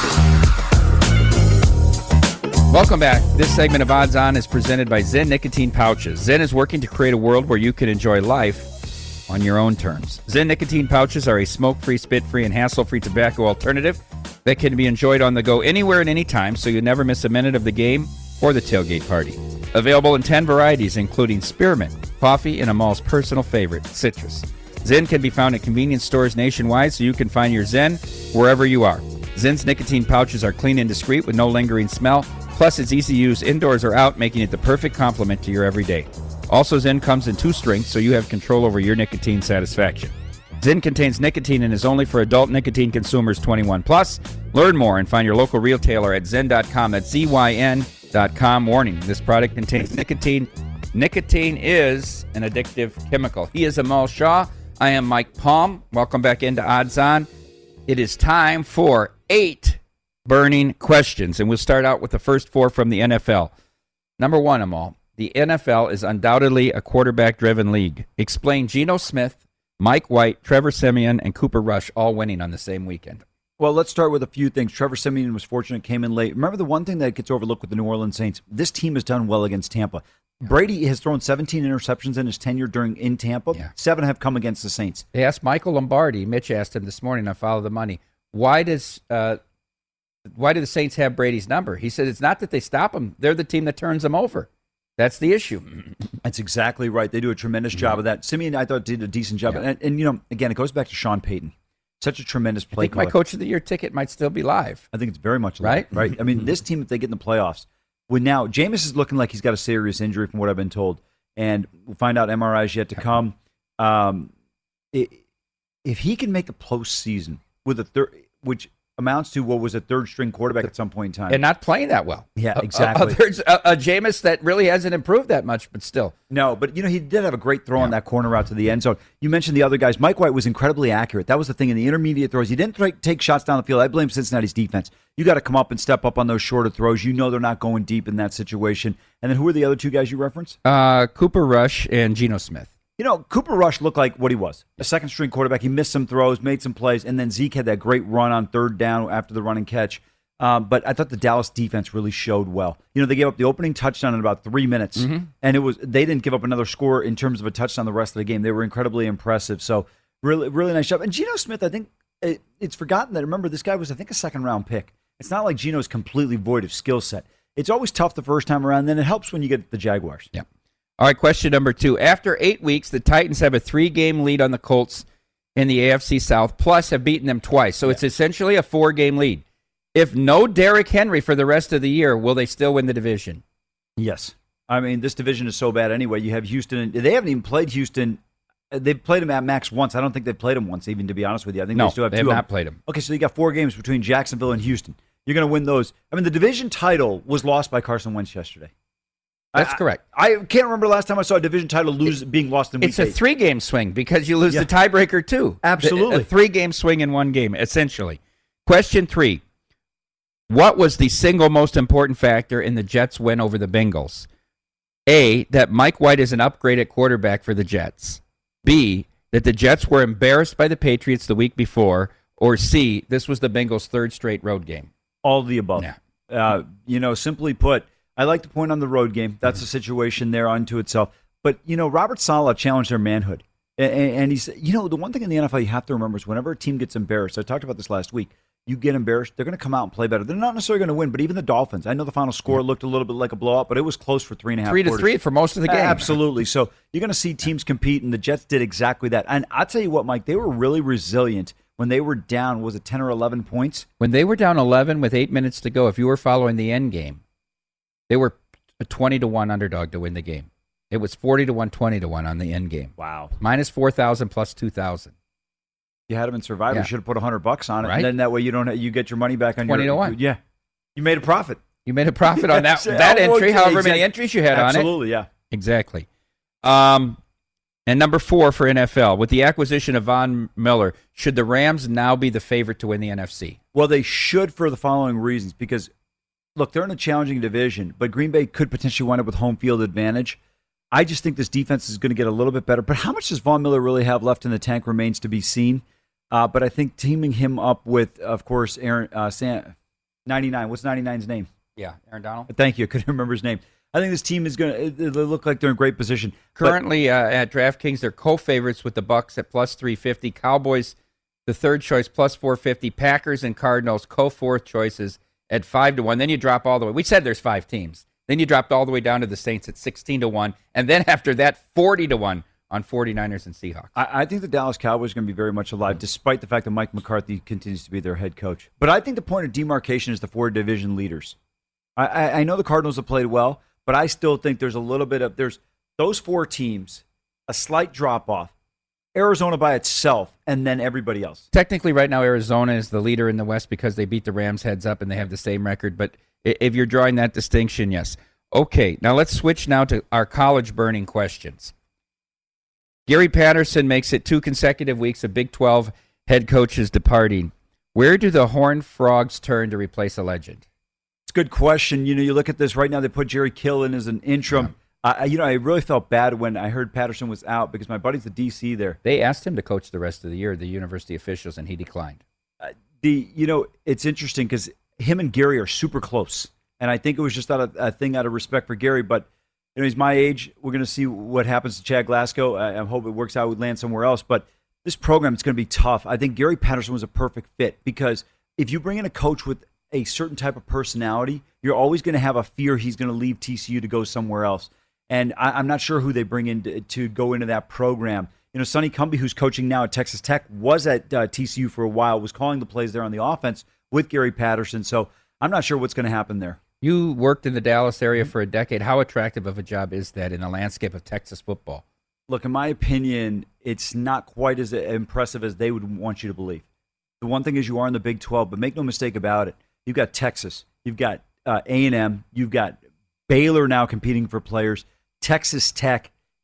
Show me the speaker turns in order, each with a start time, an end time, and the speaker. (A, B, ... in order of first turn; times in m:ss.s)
0:02.7-0:08.7 A
0:09.3-0:57.3 A
0:57.9-1:03.5 A
1:04.2-1:13.2 A
1:13.6-1:25.0 B
1:25.1-1:29.4 A
1:30.3-1:35.8 A
1:36.2-1:43.1 B
1:42.8-1:44.9 A
1:44.9-1:54.3 B
1:45.6-1:46.1 A
1:54.9-1:55.2 B
1:55.8-2:01.4 B
2:01.3-2:06.2 A
2:02.4-2:03.2 B
2:06.3-2:20.6 B
2:20.6-2:22.7 A
2:23.0-2:50.3 B
2:35.0-2:35.3 A
2:51.0-3:03.4 A
3:04.0-3:08.2 B
3:08.7-3:18.7 B
3:11.8-3:12.8 A
3:19.5-3:23.2 B
3:19.6-3:20.0 A
3:22.8-3:29.4 A
3:25.6-3:26.3 B
3:30.5-3:34.3 A
3:35.1-3:44.9 A
3:45.2-4:05.2 B
4:04.6-4:06.2 A
4:05.7-4:13.9 B
4:14.0-4:17.2 A
4:18.1-4:25.1 A
4:23.0-4:23.4 B
4:26.1-4:30.4 B
4:27.8-4:28.1 A
4:29.6-4:30.2 A
4:31.0-4:31.6 B
4:31.8-4:34.9 A
4:32.3-4:35.3 B
4:35.5-4:36.1 A
4:36.6-4:37.2 A
4:37.9-4:43.6 A
4:43.7-4:45.9 B
4:46.6-4:50.4 B
4:50.9-4:59.8 B
5:00.3-5:01.5 B
5:01.8-5:02.5 A
5:02.5-5:06.8 B
5:06.6-5:11.0 A
5:11.5-5:23.9 A
5:24.0-5:31.4 B
5:32.0-5:38.5 B
5:39.2-5:41.4 B
5:41.5-5:51.7 A
5:53.1-6:00.6 A
6:01.3-6:09.0 B
6:09.0-6:12.2 A
6:12.6-6:46.6 B
6:46.8-6:51.8 A
6:52.3-6:56.6 B
6:57.2-7:06.1 B